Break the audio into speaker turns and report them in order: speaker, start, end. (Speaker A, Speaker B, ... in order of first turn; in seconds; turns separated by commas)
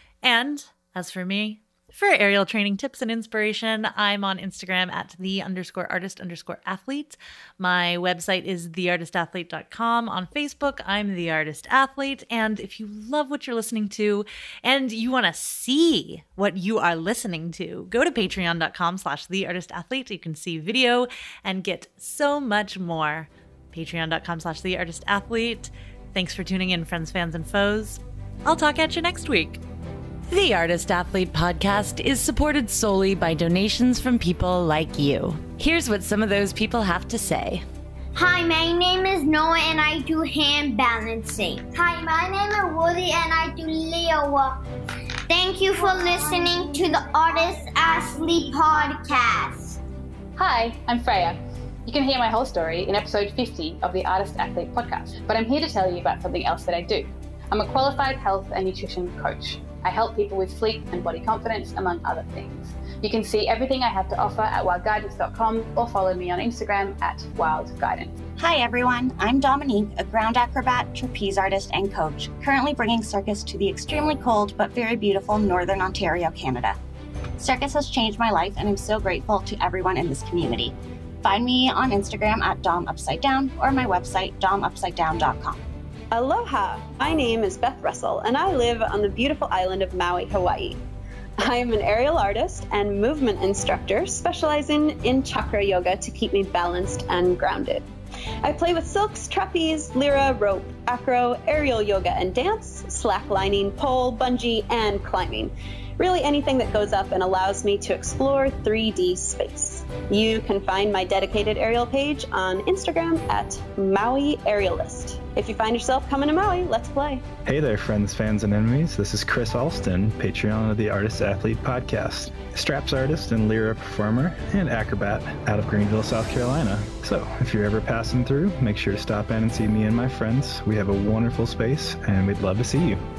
Speaker A: 0.2-29.6, Speaker A: 30.3-37.6, Speaker B: 38.1-44.5, Speaker B: 45.3-49.8, Speaker C: 50.4-68.2, Speaker D: 68.4-76.8, Speaker D: 77.4-85.6, Speaker E: 86.1-90.8, Speaker E: 91.4-97.9, Speaker E: 98.4-117.2, Speaker F: 117.5-133.0